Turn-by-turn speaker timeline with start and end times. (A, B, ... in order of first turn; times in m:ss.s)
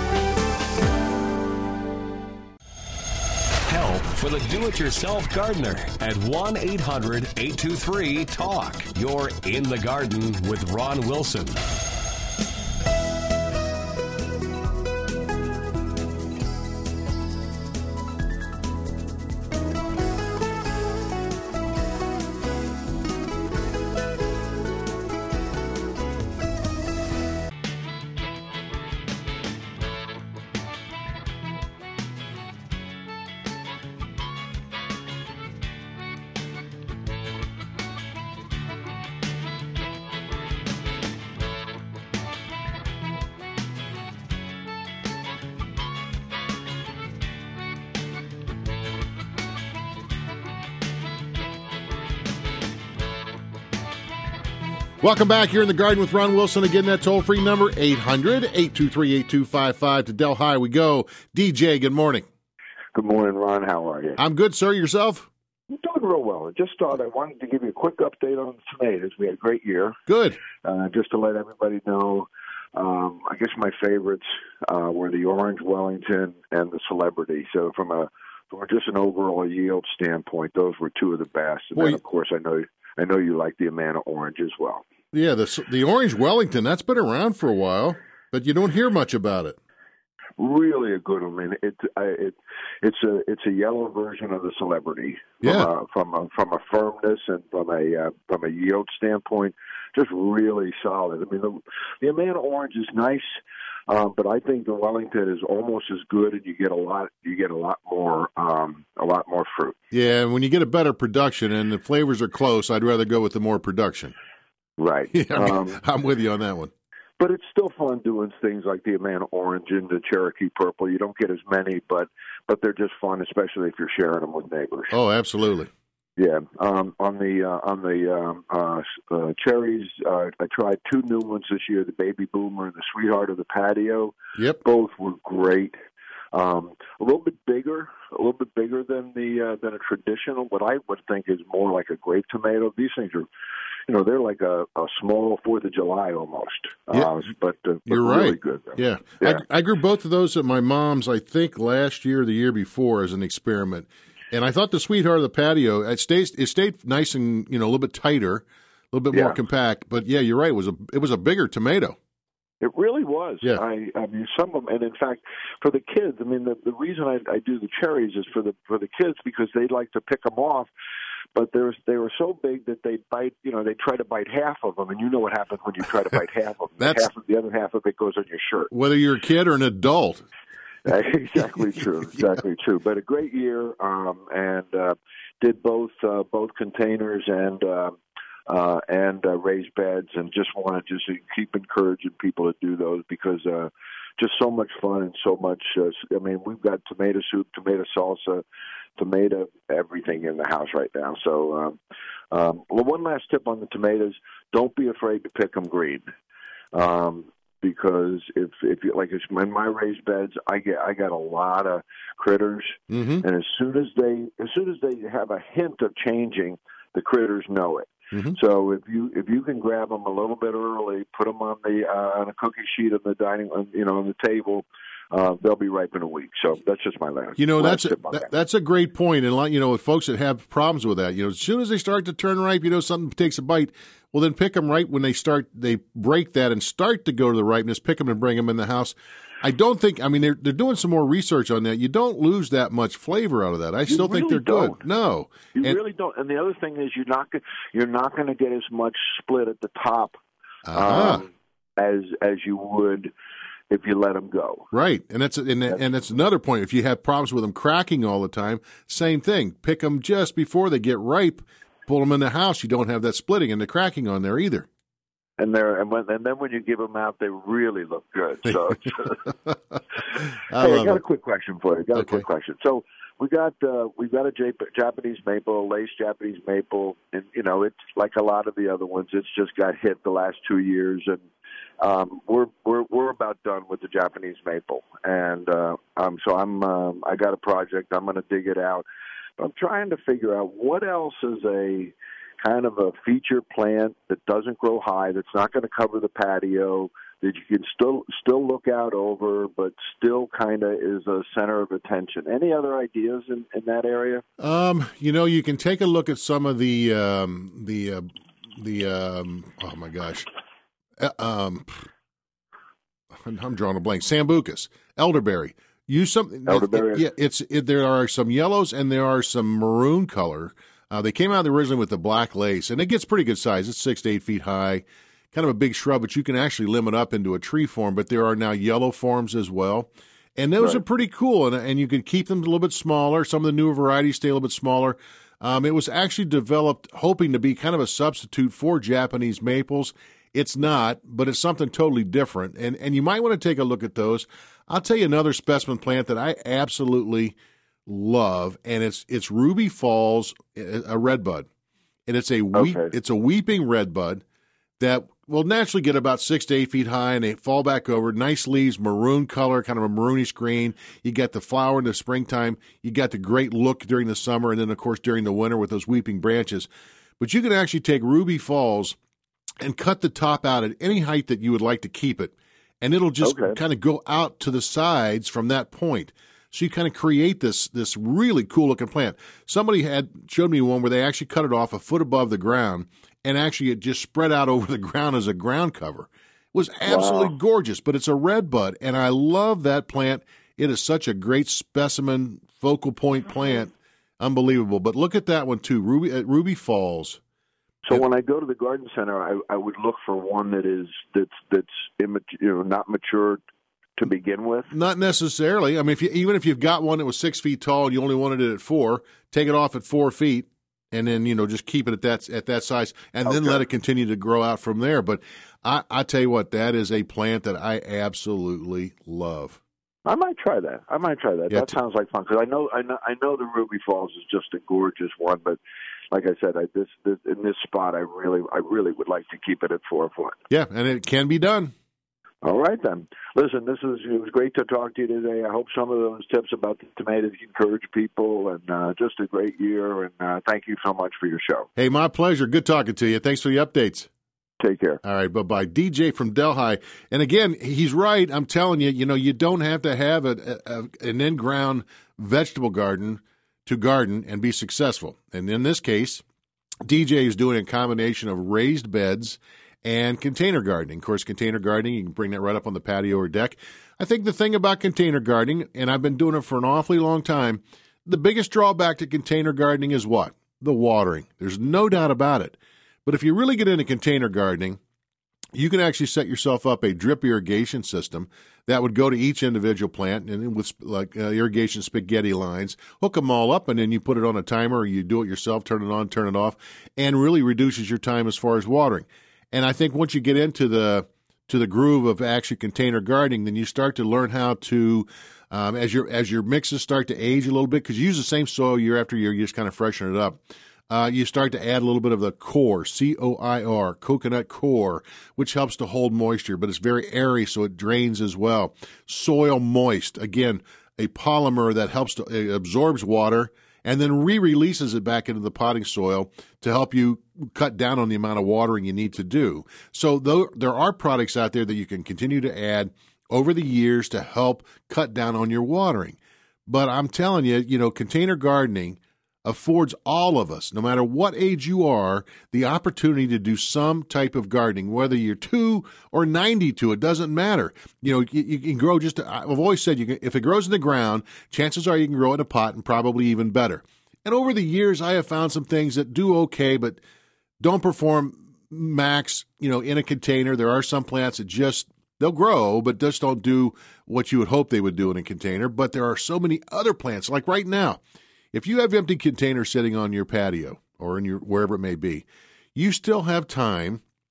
0:03.7-0:11.6 A
0:55.0-1:02.3 B
1:03.0-1:04.2 C
1:04.2-1:05.3 B
1:05.7-1:10.0 C
1:10.1-1:10.4 B
1:10.6-1:24.8 C
1:25.1-1:29.6 B
1:30.4-1:43.3 C
1:35.4-1:35.7 B
1:43.9-1:49.8 C
1:49.9-1:54.1 B
1:54.8-1:55.8 C
1:55.1-1:56.7 B
1:57.2-2:04.9 C
2:04.9-2:05.7 B
2:06.2-2:15.8 C
2:16.3-2:23.3 C
2:23.9-2:29.4 C
2:27.9-2:42.0 B
2:39.1-2:39.4 C
2:42.6-2:50.7 C
2:51.4-2:58.7 C
2:56.8-2:57.1 B
2:58.7-3:00.3 B
3:00.8-3:08.0 C
3:08.5-3:18.4 C
3:19.0-3:21.8 C
3:22.3-3:26.0 C
3:26.7-3:48.3 C
3:32.9-3:33.2 B
3:38.1-3:38.4 B
3:47.4-4:05.8 B
4:03.9-4:04.8 C
4:05.6-4:10.2 C
4:10.7-4:11.2 B
4:10.7-4:13.1 C
4:13.7-4:14.7 C
4:14.7-4:24.7 B
4:25.4-4:29.2 C
4:28.5-4:28.7 B
4:30.5-4:31.0 B
4:30.6-4:41.2 C
4:31.9-4:32.3 B
4:41.8-4:48.8 C
4:49.4-5:04.2 C
5:04.4-5:10.3 B
5:11.0-5:11.9 B
5:13.2-5:47.4 B
5:16.5-5:17.0 C
5:47.9-5:51.5 B
5:52.1-5:54.2 B
5:52.6-5:52.9 C
5:54.8-6:09.0 B
6:09.6-6:37.2 B
6:13.2-6:13.6 C
6:26.9-6:27.3 C
6:37.8-6:43.4 C
6:44.0-6:44.7 C
6:44.7-6:59.6 B
6:53.3-6:53.6 C
7:00.1-7:05.6 C
7:01.5-7:01.8 B
7:06.1-7:10.4 C
7:10.5-7:11.7 B
7:12.4-7:21.7 C
7:21.8-7:24.1 B
7:24.6-7:25.0 C
7:25.0-7:36.2 B
7:36.8-7:54.8 B
7:55.5-9:07.0 B
9:07.6-9:18.0 B
9:18.5-9:24.0 B